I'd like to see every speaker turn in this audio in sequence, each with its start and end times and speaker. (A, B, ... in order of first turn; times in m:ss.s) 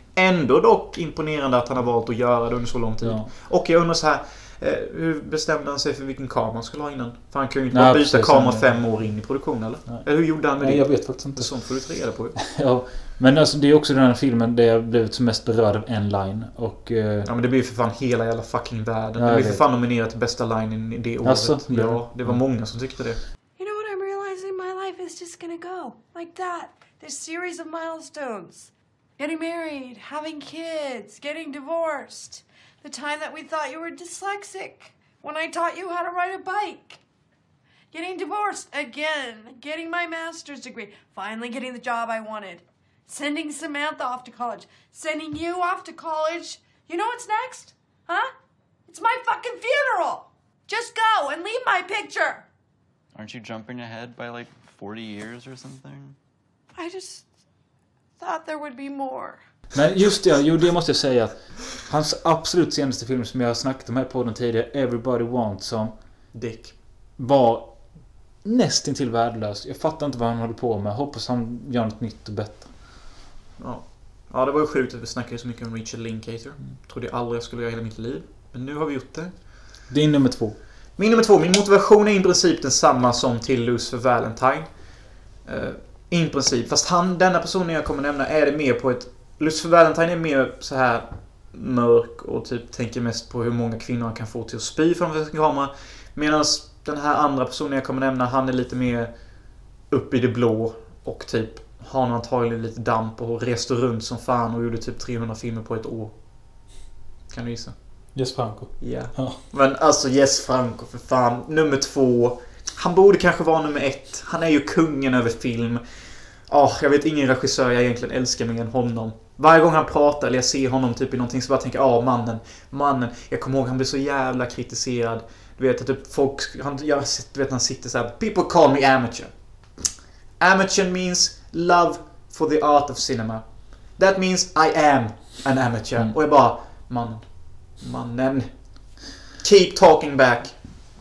0:00.1-0:12.4 A
0:03.0-0:03.3 B
0:07.7-0:08.7 B
0:10.6-0:11.5 B
0:12.4-0:17.3 B
0:17.2-0:23.2 A
0:19.2-0:19.6 B
0:21.2-0:22.4 B
0:23.6-0:37.0 C
0:37.9-0:48.3 C
0:48.9-0:52.4 C
0:53.1-0:56.2 D
0:56.7-0:57.2 C
0:58.2-0:59.4 C
0:59.7-1:05.9 B
1:06.3-1:06.7 A
1:07.2-1:07.8 B
1:08.4-1:12.7 B
1:13.6-1:19.3 A
1:19.9-1:20.6 B
1:21.0-1:24.7 A
1:25.4-1:39.1 A
1:39.9-1:46.1 A
1:47.3-1:47.7 A
1:48.1-1:49.4 B
1:48.8-1:55.8 A
1:56.5-2:09.3 A
2:10.4-2:20.6 A